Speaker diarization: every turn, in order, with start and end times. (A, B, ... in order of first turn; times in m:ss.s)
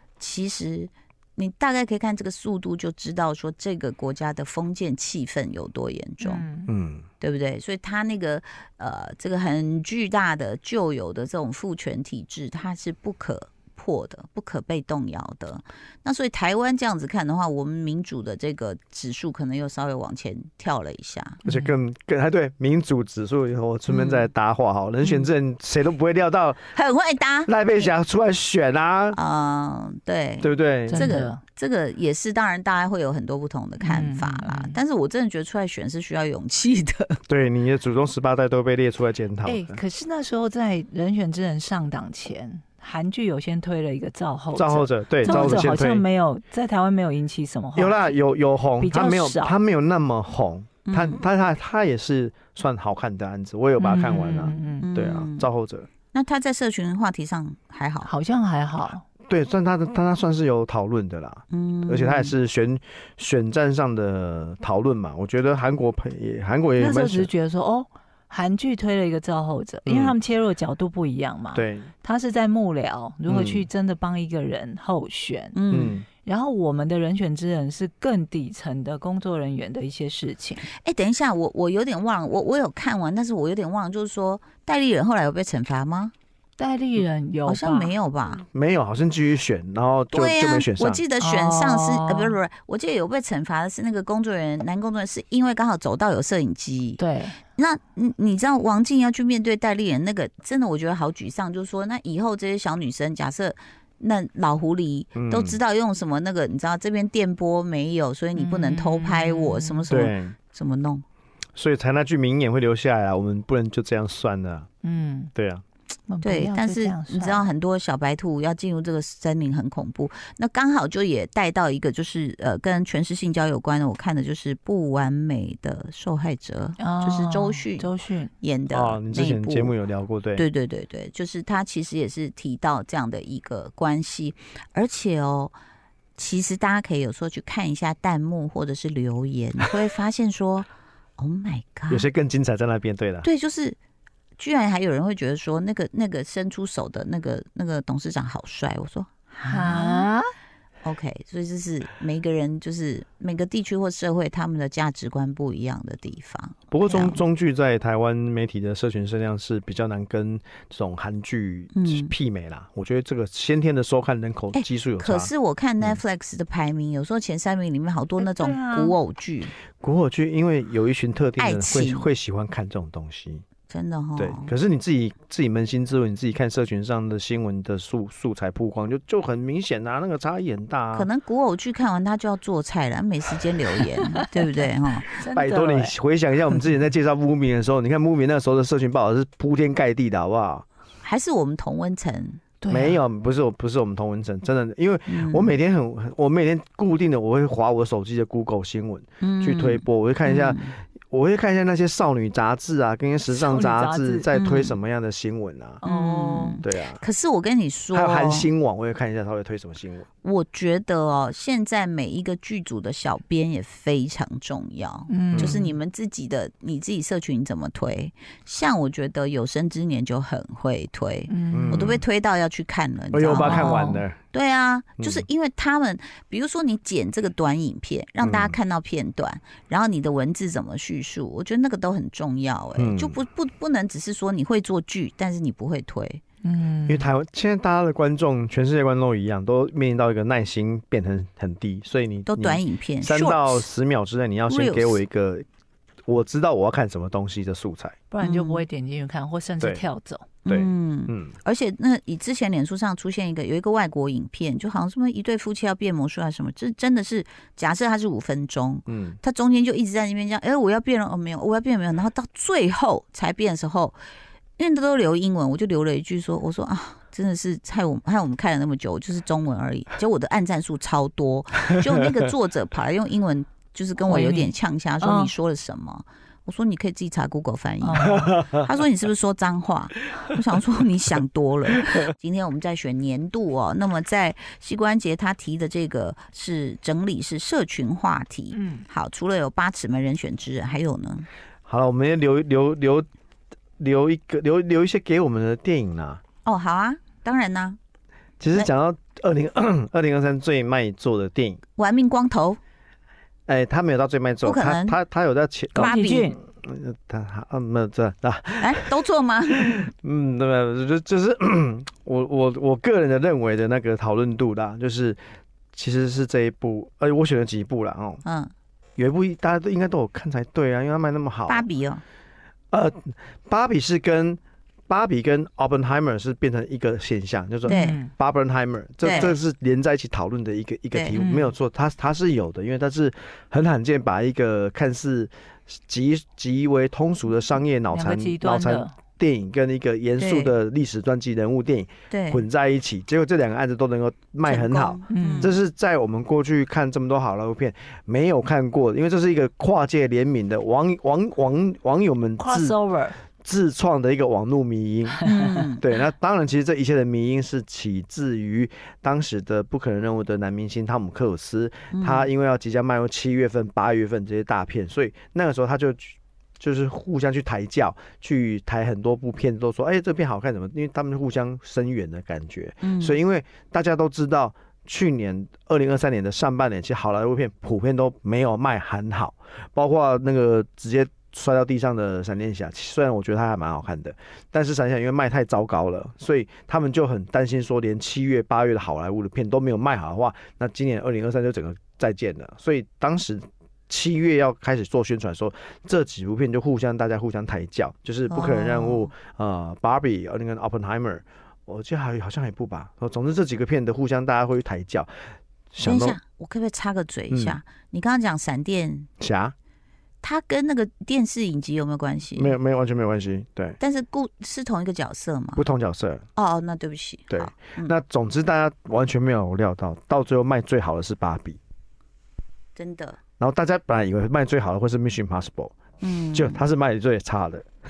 0:00.2-0:06.4 A
0:06.2-0:06.7 B
0:06.7-0:07.0 C
0:07.2-0:21.4 A
0:21.4-0:21.7 B
0:21.4-0:26.7 C
0:26.7-0:27.9 A
0:27.5-0:29.2 C
0:29.1-0:37.2 A
0:30.4-0:31.2 C
0:30.9-0:31.4 B
0:33.8-0:34.8 B
0:37.3-0:39.8 C
0:39.4-0:48.2 B
0:44.5-0:46.0 C
0:45.3-0:45.6 A
0:47.8-0:55.9 C
0:48.8-0:49.6 B
0:50.8-0:51.2 A
0:53.8-0:54.9 B
0:54.8-0:55.5 A
0:56.1-0:58.1 A
0:58.0-0:59.0 B
0:59.3-1:07.3 C
1:01.5-1:02.3 A
1:06.8-1:15.6 B
1:09.9-1:10.2 C
1:11.5-1:11.9 C
1:13.3-1:13.7 C
1:15.5-1:16.0 A
1:15.7-1:16.0 C
1:16.1-1:20.6 B
1:20.7-1:26.1 A
1:26.6-1:27.9 B
1:27.4-1:28.4 A
1:28.3-1:31.0 C
1:30.1-1:37.0 A
1:31.2-1:32.4 B
1:37.0-1:37.4 B
1:37.6-1:51.0 A
1:45.1-1:45.6 C
1:48.3-1:49.9 B
1:49.9-1:50.4 C
1:51.5-1:54.7 C
1:54.8-1:55.3 B
1:55.4-1:55.6 C
1:56.1-1:57.5 B
1:56.2-2:07.9 A
2:06.8-2:08.3 B
2:08.4-2:09.7 A
2:08.7-2:10.4 C
2:10.3-2:15.5 A
2:16.2-2:22.1 A
2:21.9-2:23.3 C
2:23.2-2:23.8 A
2:24.4-2:30.1 A
2:29.4-2:30.3 B
2:30.8-2:37.2 A
2:36.7-2:46.0 C
2:41.7-2:42.1 A
2:44.5-2:49.6 A
2:48.2-2:48.9 B
2:49.8-2:53.4 C
2:51.4-2:52.1 A
2:53.7-2:54.5 A
2:54.2-3:01.1 C
3:00.9-3:05.2 A
3:05.0-3:05.9 B
3:05.3-3:10.6 C
3:11.0-3:12.4 A
3:12.6-3:13.0 B
3:12.7-3:25.8 C
3:15.1-3:15.5 A
3:19.2-3:20.8 A
3:23.3-3:24.3 B
3:24.3-3:24.8 A
3:25.8-3:26.6 B
3:25.8-3:28.5 A
3:26.6-3:27.0 C
3:27.9-3:30.1 C
3:30.2-3:56.2 A
3:35.1-3:35.8 B
3:41.3-3:41.9 B
3:41.5-3:42.0 C
3:43.1-3:44.2 C
3:43.3-3:44.0 B
3:45.0-3:45.2 C
3:48.2-3:48.6 C
3:52.8-3:53.2 C
3:56.4-3:57.1 B
3:56.9-4:05.4 C
4:02.3-4:03.7 A
4:04.5-4:05.0 A
4:06.1-4:08.0 C
4:08.1-4:10.3 B
4:08.2-4:08.6 A
4:09.6-4:09.8 C
4:10.4-4:24.0 A
4:10.5-4:11.3 C
4:18.9-4:19.2 C
4:24.6-4:51.3 A
4:34.0-4:35.3 B
4:37.8-4:38.4 B
4:38.0-4:38.6 C
4:48.5-4:48.8 B
4:51.7-4:53.1 C
4:53.8-4:56.2 C
4:56.4-4:57.8 A
4:58.4-5:01.6 C
5:01.8-5:02.6 A
5:03.5-5:09.0 C
5:04.4-5:05.0 A
5:05.7-5:06.4 B
5:05.8-5:06.3 A
5:08.6-5:09.9 A
5:09.5-5:15.2 C
5:15.7-5:18.2 C
5:18.2-5:18.5 A
5:19.0-5:21.6 C
5:21.5-5:22.0 A
5:22.7-5:52.8 C
5:27.6-5:28.1 B
5:27.7-5:28.0 A
5:29.0-5:29.4 A
5:30.9-5:31.2 A
5:31.1-5:31.5 B
5:37.9-5:38.9 B
5:40.2-5:40.5 A
5:42.1-5:42.4 A
5:44.4-5:45.5 A
5:45.1-5:45.5 B
5:52.4-5:53.2 B
5:53.4-5:55.2 C
5:55.2-5:55.8 A
5:55.8-6:45.1 C
6:01.9-6:02.3 A
6:12.8-6:13.2 A
6:38.3-6:39.1 A
6:45.7-6:46.2 C
6:45.8-6:49.1 A
6:47.3-6:47.6 C
6:49.2-6:49.5 C
6:50.2-6:52.6 A
6:52.3-6:53.8 C
6:53.8-6:55.7 A
6:55.6-6:56.2 C
6:56.4-6:57.9 A
6:57.3-7:01.6 C
7:02.7-7:03.2 A
7:03.4-7:05.7 C
7:06.0-7:06.6 A
7:06.3-7:07.6 C